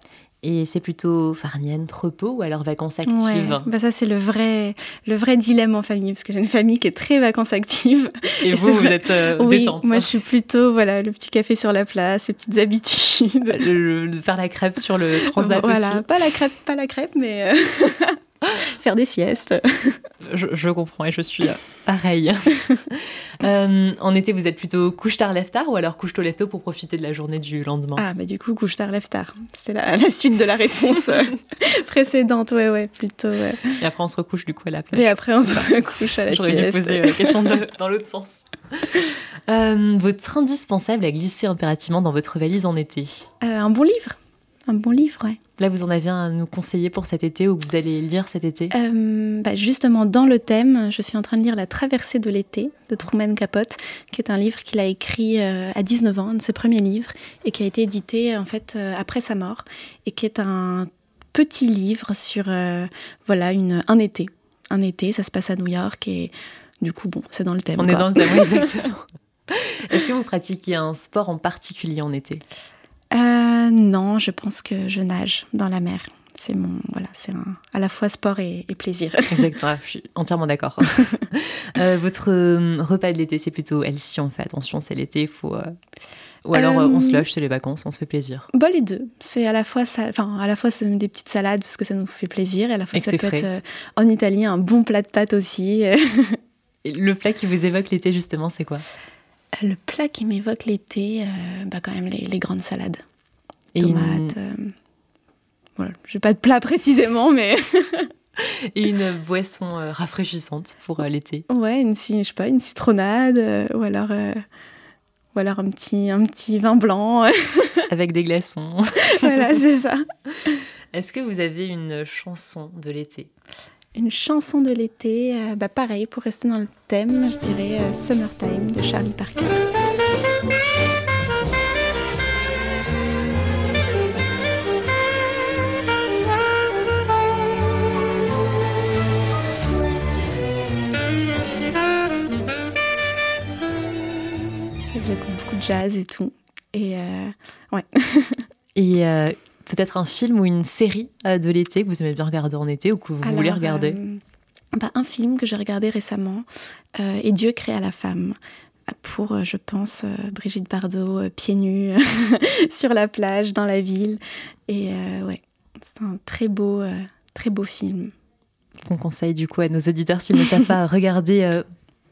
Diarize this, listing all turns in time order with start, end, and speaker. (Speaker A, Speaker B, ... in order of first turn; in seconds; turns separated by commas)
Speaker A: 0.4-3.7, Speaker B: 3.1-13.7, Speaker A: 8.4-10.1, Speaker A: 13.5-16.1, Speaker B: 15.2-20.0, Speaker A: 20.2-28.0, Speaker B: 28.0-33.8, Speaker A: 33.8-35.8, Speaker B: 34.9-37.6, Speaker A: 36.3-43.2, Speaker B: 43.4-44.2, Speaker B: 44.7-45.4, Speaker A: 45.6-48.7, Speaker B: 48.7-68.7, Speaker A: 67.8-72.4, Speaker B: 73.1-79.5, Speaker A: 79.3-85.7, Speaker A: 86.5-88.5, Speaker B: 86.5-87.2, Speaker B: 88.5-96.4, Speaker A: 92.9-93.5, Speaker A: 96.8-98.8, Speaker B: 99.6-103.0, Speaker A: 103.7-104.3, Speaker B: 103.8-104.7, Speaker B: 105.8-108.1, Speaker A: 108.4-111.4, Speaker B: 111.5-114.4, Speaker B: 115.3-117.9, Speaker A: 117.9-119.5, Speaker B: 119.1-120.0, Speaker A: 120.5-123.3, Speaker B: 124.0-129.7, Speaker B: 144.9-148.5, Speaker A: 148.8-154.0, Speaker B: 153.2-154.2, Speaker B: 154.8-158.4, Speaker B: 158.9-168.1, Speaker A: 168.8-171.6